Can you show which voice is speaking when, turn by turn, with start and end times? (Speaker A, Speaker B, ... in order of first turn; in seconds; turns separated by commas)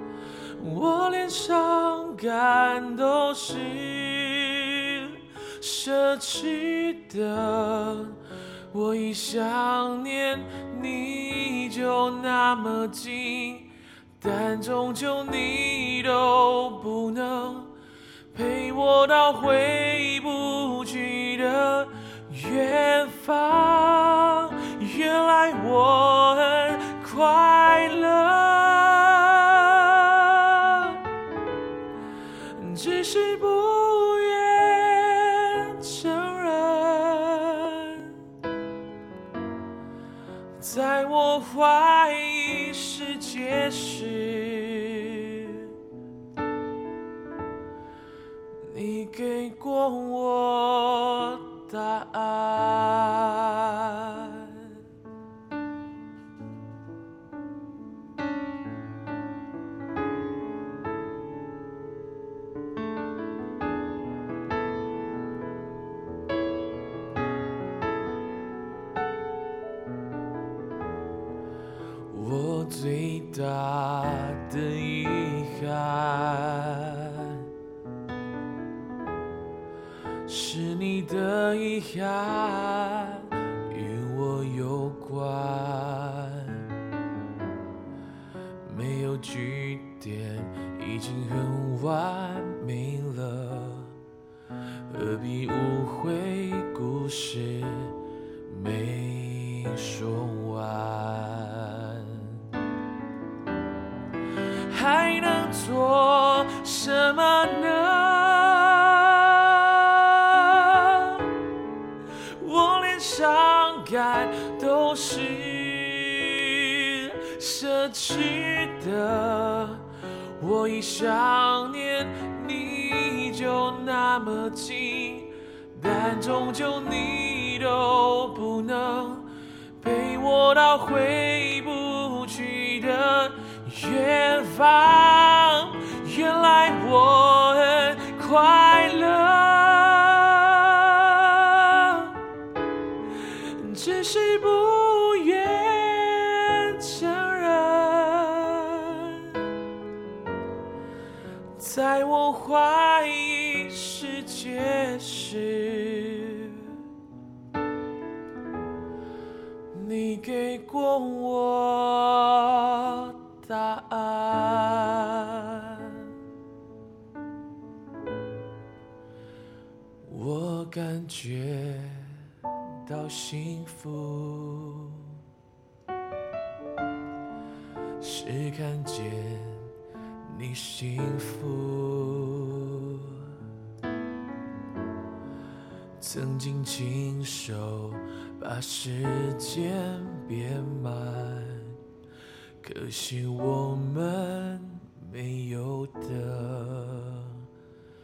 Speaker A: 0.6-8.2, Speaker A: 8.7-17.7, Speaker A: 18.3-31.0, Speaker A: 32.6-38.1, Speaker A: 40.6-45.6, Speaker A: 48.7-54.5, Speaker A: 72.1-77.1, Speaker A: 80.3-86.7, Speaker A: 88.7-93.9, Speaker A: 94.9-97.9, Speaker A: 98.5-101.9, Speaker A: 104.7-111.2, Speaker A: 112.4-119.8, Speaker A: 120.4-129.3, Speaker A: 129.8-142.2, Speaker A: 143.6-149.3, Speaker A: 151.6-156.7, Speaker A: 159.7-165.7, Speaker A: 170.1-172.2, Speaker A: 172.9-175.0, Speaker A: 178.0-179.7, Speaker A: 180.3-182.6, Speaker A: 186.0-191.7, Speaker A: 192.6-197.3